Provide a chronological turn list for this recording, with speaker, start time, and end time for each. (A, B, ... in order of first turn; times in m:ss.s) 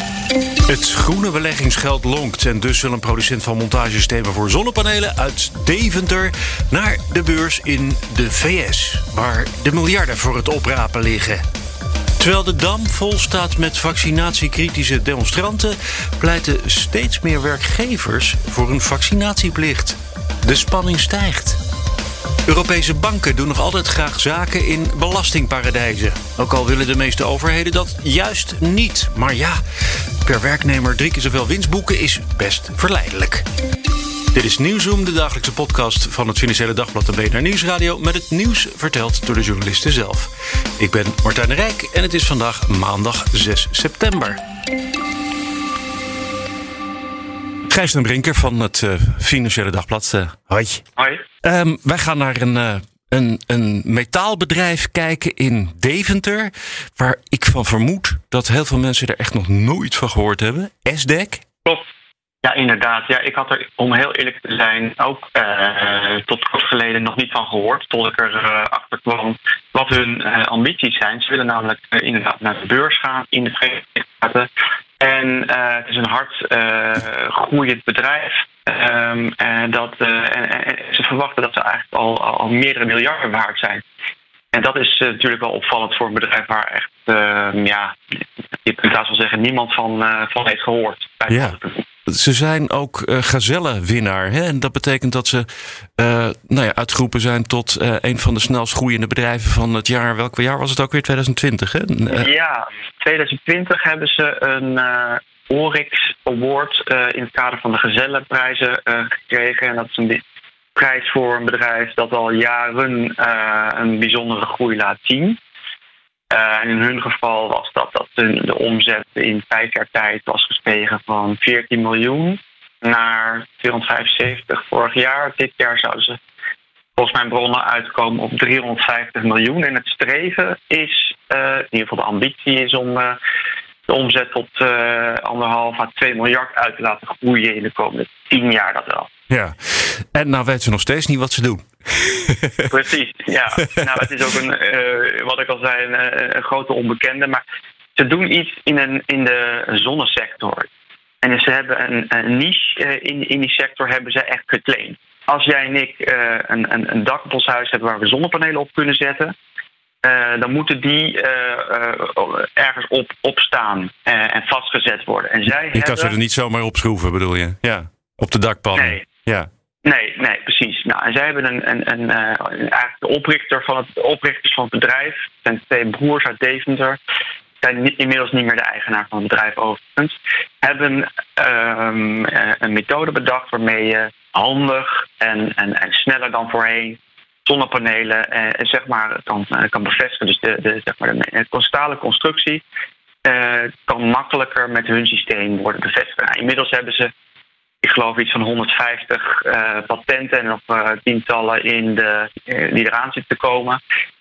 0:00.7-0:11.4 A
0:12.2-0:21.6 A
0:22.5-0:33.4 A
0:34.3-0:44.4 A
0:47.7-0:50.8 A
0:51.0-0:51.2 B
0:51.4-1:01.4 A
1:02.4-1:14.5 B
1:15.0-1:23.8 B
1:24.5-1:28.0 B
1:28.6-1:31.8 B
1:31.3-1:35.5 A
1:36.0-1:42.3 A
1:42.1-1:50.2 B
1:50.7-1:55.4 B
1:56.3-2:06.2 B
2:07.0-2:13.2 B
2:13.9-2:19.1 B
2:19.3-2:22.7 A
2:22.7-2:27.4 B
2:28.0-2:30.7 B
2:31.2-2:39.3 B
2:40.0-2:46.1 B
2:45.7-2:49.5 A
2:48.8-2:49.0 B
2:49.8-2:57.0 B
2:57.6-3:12.6 B
3:13.2-3:17.1 B
3:17.8-3:23.8 B